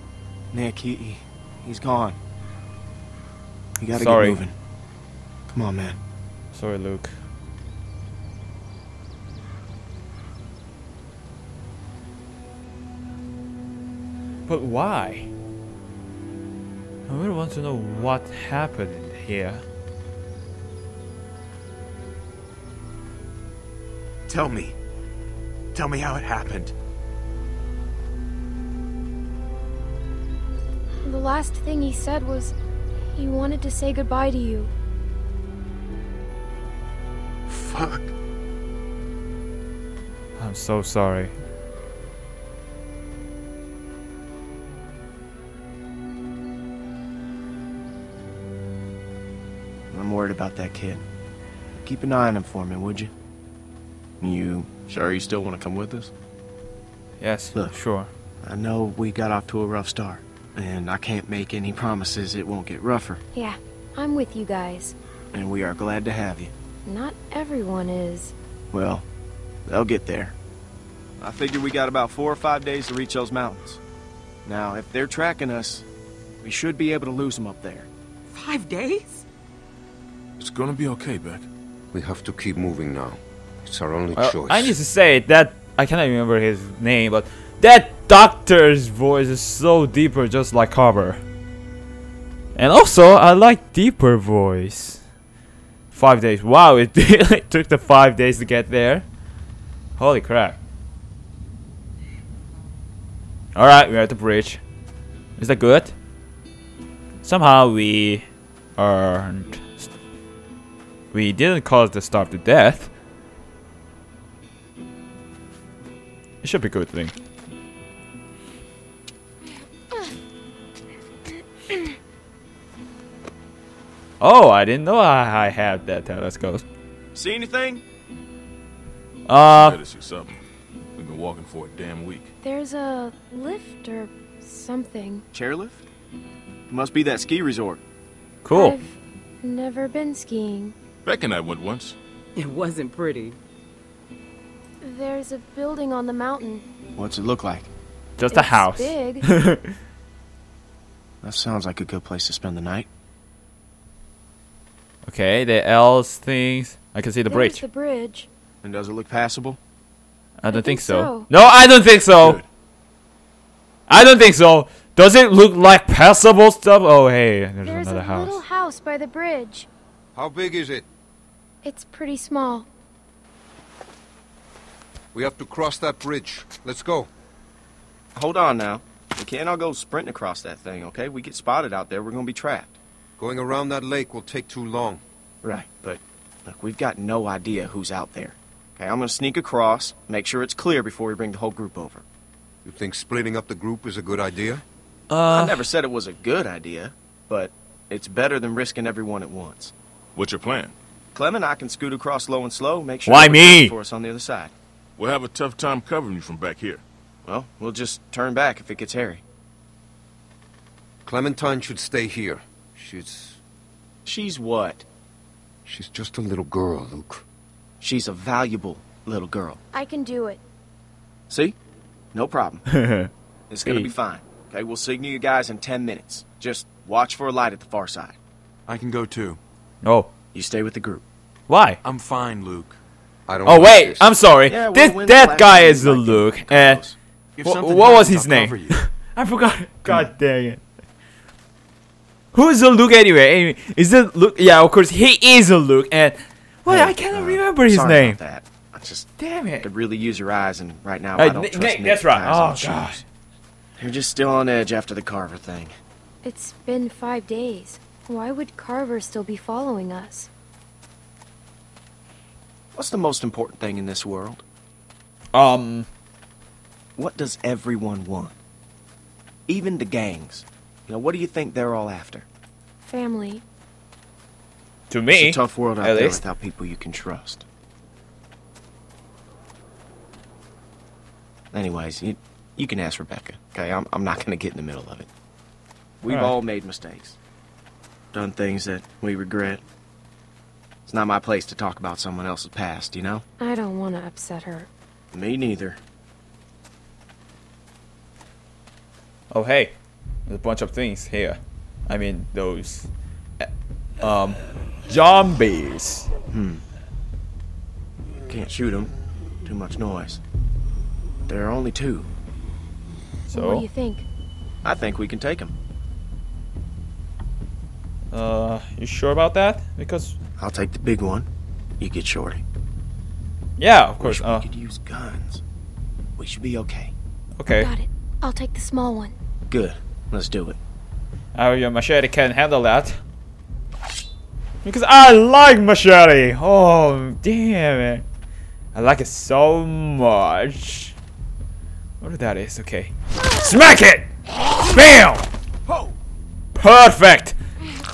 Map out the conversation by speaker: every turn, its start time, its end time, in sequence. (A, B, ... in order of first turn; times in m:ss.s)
0:00.5-0:02.2 A
0:03.8-0:04.5 A
0:03.9-0:04.4 B
0:05.5-0:06.0 A
0:06.5-0:07.1 B
0:14.5-0:15.3 B
0:17.1-0:19.6 B
0:24.3-0:24.7 C
0:25.7-0:26.7 C
0:31.0-0:32.5 D
0:33.1-0:34.7 D
0:37.5-0:38.1 C
0:40.4-0:41.3 B
0:49.9-0:51.0 A
0:51.8-0:53.1 A
0:54.2-0:56.1 A
0:57.2-0:58.1 B
0:58.4-1:03.2 A
1:03.3-1:04.9 D
1:05.3-1:06.5 A
1:06.8-1:08.3 D
1:08.7-1:09.0 A
1:09.6-1:10.3 A
1:11.2-1:13.8 A
1:14.4-1:15.8 A
1:16.4-1:17.9 A
1:18.3-1:19.2 E
1:20.4-1:21.5 F
1:21.9-1:24.8 G
1:24.2-1:31.2 B
1:32.6-1:35.0 B
1:35.9-1:39.0 B
1:40.0-1:40.6 B
1:43.5-1:44.6 B
1:45.4-1:45.9 B
1:47.2-1:48.2 B
1:48.8-1:49.9 B
1:51.1-1:52.9 B
1:56.4-1:57.1 B
2:04.2-2:06.6 B
2:07.1-2:07.8 A
2:09.3-2:09.8 B
2:09.5-2:10.4 F
2:11.0-2:12.3 F
2:12.4-2:15.2 D
2:15.3-2:15.8 A
2:16.7-2:17.8 A
2:18.4-2:18.8 B
2:18.5-2:20.7 D
2:21.0-2:22.0 F
2:22.4-2:23.4 E
2:24.8-2:26.7 D
2:27.0-2:27.7 A
2:28.2-2:29.7 B
2:28.3-2:29.2 D
2:31.2-2:32.9 A
2:35.0-2:37.6 B
2:37.3-2:38.3 D
2:38.6-2:39.6 A
2:40.4-2:42.4 B
2:40.5-2:41.3 D
2:42.2-2:42.4 A
2:43.9-2:48.4 B
2:47.6-2:49.7 D
2:50.1-2:50.9 G
2:51.6-2:52.7 D
2:55.1-2:57.1 G
2:58.1-3:02.8 A
3:03.2-3:05.0 G
3:05.4-3:12.0 A
3:12.6-3:14.6 G
3:15.1-3:15.6 B
3:15.3-3:19.7 A
3:20.1-3:20.7 F
3:21.1-3:24.5 A
3:23.0-3:23.7 B
3:25.0-3:26.8 F
3:27.2-3:29.2 A
3:31.0-3:33.4 G
3:34.0-3:34.8 A
3:35.6-3:37.2 G
3:37.8-3:39.6 A
3:39.7-3:40.4 D
3:41.3-3:41.6 A
3:42.1-3:42.6 A
3:42.7-3:43.1 B
3:43.5-3:48.2 A
3:43.6-3:43.9 B
3:48.7-3:49.4 C
3:49.8-3:50.1 B
3:50.3-3:51.0 A
3:51.5-3:51.8 B
3:51.8-3:52.8 C
3:53.3-3:54.1 G
3:53.4-3:56.8 B
3:54.4-3:57.0 A
3:57.4-3:58.8 C
3:57.4-4:00.6 B
4:02.3-4:08.2 B
4:06.6-4:13.0 A
4:09.2-4:09.6 B
4:11.2-4:13.0 B
4:13.8-4:15.7 A
4:16.2-4:20.3 D
4:22.7-4:24.4 A
4:25.3-4:25.9 B
4:27.0-4:28.3 A
4:29.5-4:32.2 A
4:32.8-4:33.4 D
4:34.9-4:36.2 B
4:35.1-4:37.4 A
4:41.5-4:45.1 A
4:46.0-4:47.2 A
4:48.1-4:49.6 A
4:50.9-4:53.2 A
4:53.4-4:54.7 D
4:55.1-4:55.8 A
4:59.3-4:59.7 B
5:00.2-5:02.9 B
5:04.0-5:06.1 B
5:06.3-5:06.6 A
5:08.3-5:08.9 A
5:09.4-5:10.2 A
5:11.3-5:12.1 A
5:13.3-5:13.6 B
5:13.3-5:14.0 D
5:14.6-5:15.5 A
5:18.1-5:20.2 B
5:20.4-5:21.3 A
5:21.8-5:22.4 A
5:23.6-5:24.5 B
5:24.0-5:25.4 A
5:26.2-5:26.9 A
5:27.4-5:27.7 B
5:27.5-5:29.1 D
5:29.5-5:30.6 A
5:31.3-5:33.0 B
5:34.6-5:38.0 B
5:38.7-5:40.9 B
5:42.0-5:44.1 B
5:44.6-5:45.2 B
5:45.6-5:45.9 A
5:46.6-5:47.4 B